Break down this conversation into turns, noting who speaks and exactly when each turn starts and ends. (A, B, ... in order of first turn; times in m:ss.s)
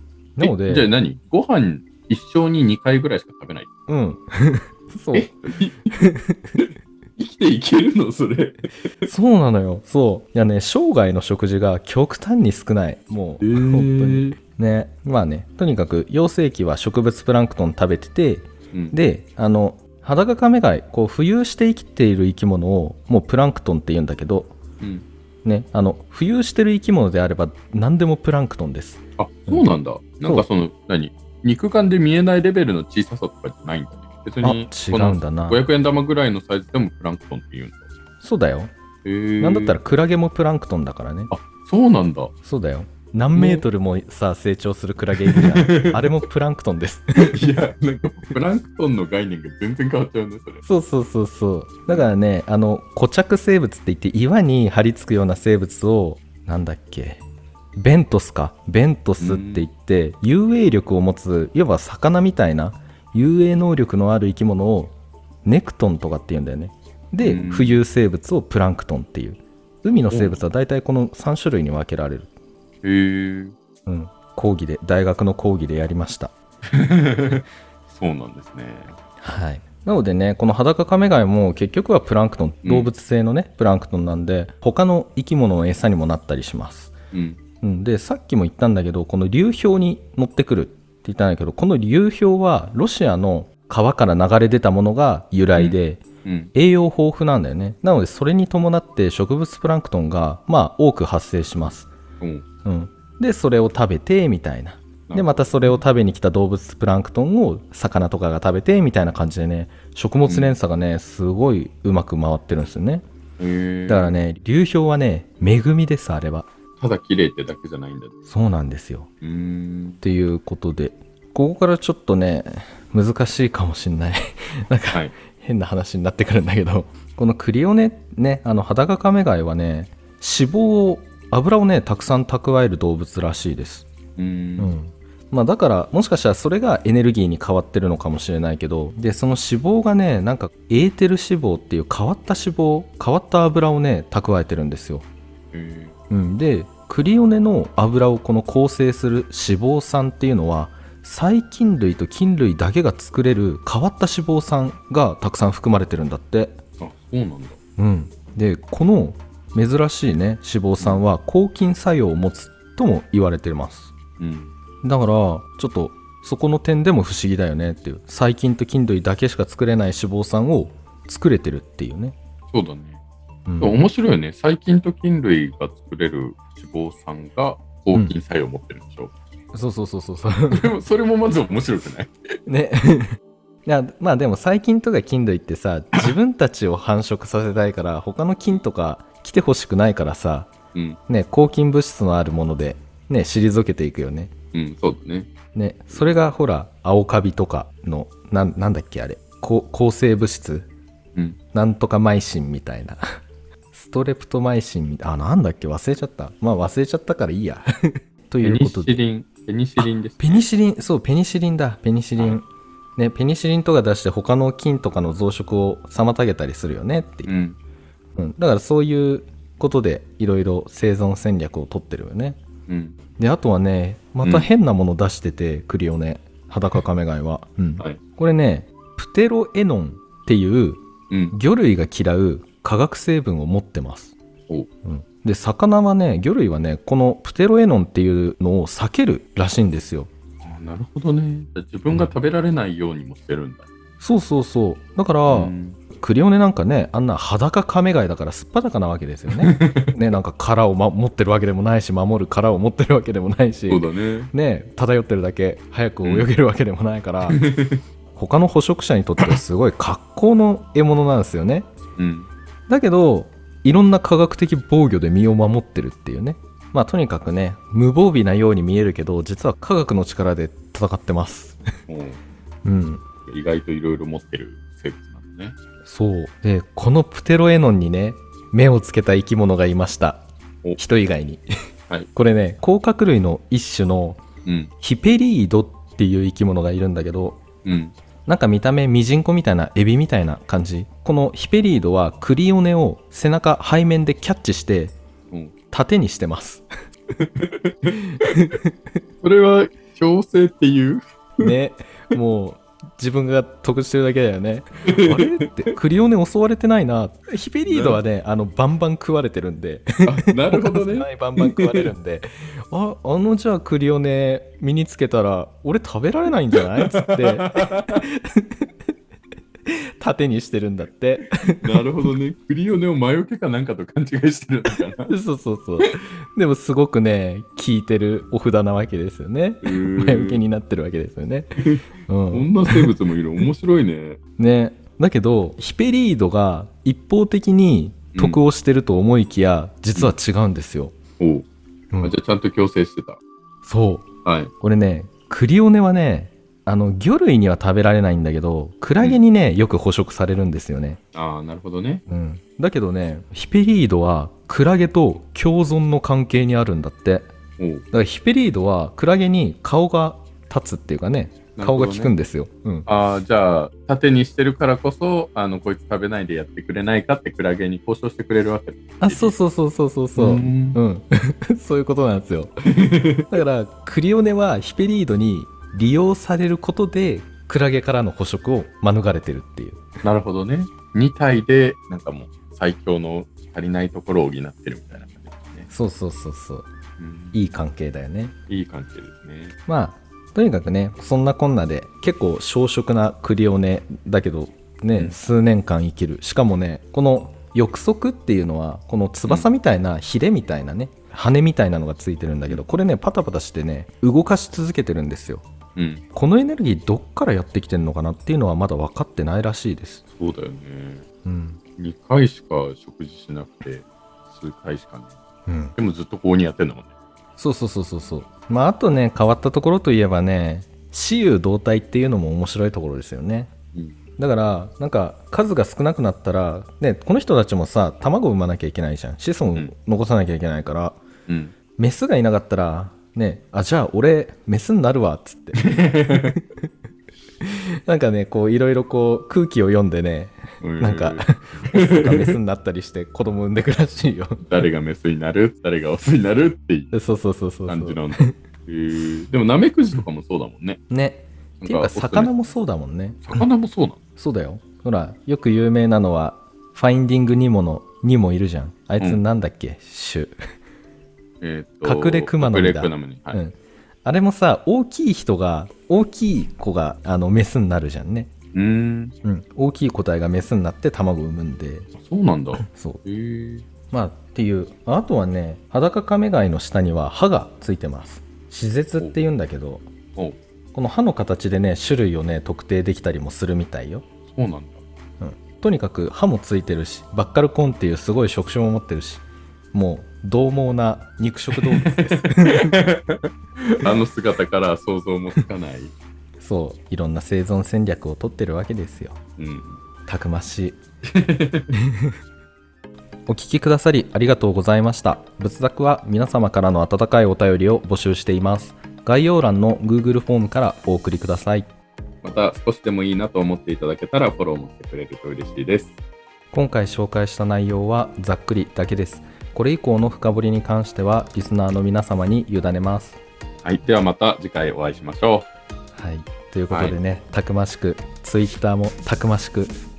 0:00.4-0:00.9 A
0:00.4-0:03.7 B
0:03.9-0:05.3 A
0:05.1-0:06.0 B
0:05.9-0:06.6 A
0:06.6-0:09.1 B
0:09.1-0:24.6 A
0:13.4-0:14.4 B
0:24.8-0:25.0 B
0:25.4-0:29.7 A
0:29.2-0:37.9 B
0:34.4-0:35.6 A
0:38.2-0:38.7 A
0:39.0-0:39.8 B
0:39.4-0:41.3 A
0:41.3-0:42.3 B
0:42.4-0:47.4 A
0:43.4-0:43.6 B
0:45.3-0:46.1 B
0:47.3-0:50.6 B
0:50.6-0:57.2 A
0:57.8-1:04.9 A
0:59.2-0:59.7 B
1:05.4-1:12.3 A
1:07.2-1:07.8 B
1:10.1-1:10.4 B
1:12.8-1:13.5 B
1:13.9-1:16.3 A
1:16.6-1:18.9 B
1:19.2-1:26.9 A
1:22.6-1:22.9 B
1:27.1-1:27.4 B
1:27.6-1:41.9 A
1:35.6-1:36.5 B
1:42.2-1:42.4 B
1:42.6-1:53.0 A
1:45.1-1:45.8 B
1:50.2-1:50.6 B
1:53.4-1:54.2 B
1:53.9-1:56.5 A
1:56.8-1:58.1 B
1:58.2-1:59.1 A
1:59.2-2:00.0 B
2:00.0-2:13.9 A
2:14.2-2:14.7 B
2:14.6-2:25.0 A
2:25.5-2:25.9 B
2:26.1-2:36.6 A
2:36.8-2:37.6 B
2:37.8-2:43.9 A
2:44.2-2:44.5 B
2:44.8-2:52.2 A
2:52.5-2:53.0 B
2:53.5-2:53.8 A
2:53.6-2:59.1 B
2:59.5-3:00.7 A
3:00.5-3:02.1 B
3:02.5-3:10.5 A
3:10.7-3:11.0 B
3:11.1-3:14.3 A
3:14.5-3:15.3 B
3:15.5-3:20.7 A
3:21.5-3:23.2 A
3:23.7-3:29.0 A
3:28.4-3:30.4 B
3:29.8-3:32.4 A
3:33.0-3:37.3 A
3:37.2-3:37.6 B
3:38.2-3:42.4 A
3:42.7-3:43.0 B
3:43.2-3:54.1 A
3:44.2-3:44.5 B
3:51.1-3:51.4 B
3:54.8-4:00.1 A
4:00.4-4:03.6 B
4:04.0-4:17.4 A
4:05.3-4:05.8 B
4:09.3-4:09.9 B
4:13.7-4:14.3 B
4:16.0-4:16.3 B
4:17.3-4:17.8 B
4:18.1-4:21.7 A
4:22.0-4:22.3 B
4:22.7-4:31.6 A
4:31.9-4:32.2 B
4:32.6-4:33.0 A
4:33.2-4:35.6 B
4:35.8-4:40.2 A
4:40.8-4:41.4 A
4:42.1-4:44.2 A
4:44.4-4:44.7 B
4:44.8-4:47.4 A
4:47.6-4:47.9 B
4:48.2-4:54.9 A
4:55.7-4:56.6 A
4:57.2-4:58.0 B
4:57.9-4:58.7 A
4:59.2-5:01.5 B
5:01.4-5:18.7 A
5:04.9-5:05.4 B
5:07.6-5:08.0 B
5:10.0-5:11.9 B
5:16.8-5:18.0 B
5:19.7-5:21.8 A
5:21.6-5:25.1 B
5:25.1-5:31.5 A
5:29.6-5:30.4 B
5:32.1-5:32.9 A
5:32.3-5:34.2 B
5:34.4-5:40.9 A
5:38.1-5:38.4 B
5:41.2-5:41.4 B
5:42.0-5:43.2 B
5:43.6-5:44.1 A
5:44.2-5:44.5 B
5:44.6-5:51.0 A
5:51.1-5:52.0 B
5:52.1-5:57.3 A
5:57.6-5:57.8 B
5:57.9-6:02.9 A
6:01.6-6:02.1 B
6:02.9-6:09.4 B
6:09.0-6:12.5 A
6:10.1-6:10.8 B
6:12.7-6:13.3 B
6:13.3-6:19.8 A
6:20.0-6:25.7 B
6:25.7-6:26.7 A
6:27.0-6:27.4 B
6:27.3-6:28.3 A
6:28.5-6:29.6 B
6:29.6-6:45.4 A
6:45.8-6:46.0 B
6:46.1-6:50.0 A
6:50.1-6:51.0 B
6:51.2-6:51.6 A
6:51.8-6:55.1 B
6:55.5-6:55.7 A
6:55.8-6:56.9 B
6:57.4-7:03.5 A
7:04.2-7:11.0 A
7:11.3-7:11.5 B
7:11.8-7:15.8 A
7:15.6-7:16.4 B
7:17.4-7:24.4 A
7:20.6-7:22.4 B
7:24.4-7:26.9 B
7:26.9-7:28.3 A
7:27.7-7:30.8 B
7:30.9-7:33.4 A
7:31.6-7:32.3 B
7:33.2-7:34.0 B
7:34.2-7:40.3 A
7:41.4-7:43.4 B
7:41.8-7:48.3 A
7:48.5-7:49.1 B
7:49.2-7:51.9 A
7:52.0-7:53.6 B
7:52.6-7:53.0 A
7:53.9-7:59.9 A
8:00.7-8:04.0 A
8:04.3-8:04.8 B
8:05.2-8:12.8 A
8:11.6-8:15.9 B
8:16.4-8:19.2 A
8:19.4-8:19.8 B
8:20.1-8:20.8 A
8:21.0-8:21.7 B
8:21.8-8:22.1 A
8:23.3-8:31.7 A
8:32.2-8:35.9 B
8:36.5-8:43.2 A
8:43.6-8:45.5 B
8:45.9-8:49.7 A
8:46.7-8:47.0 B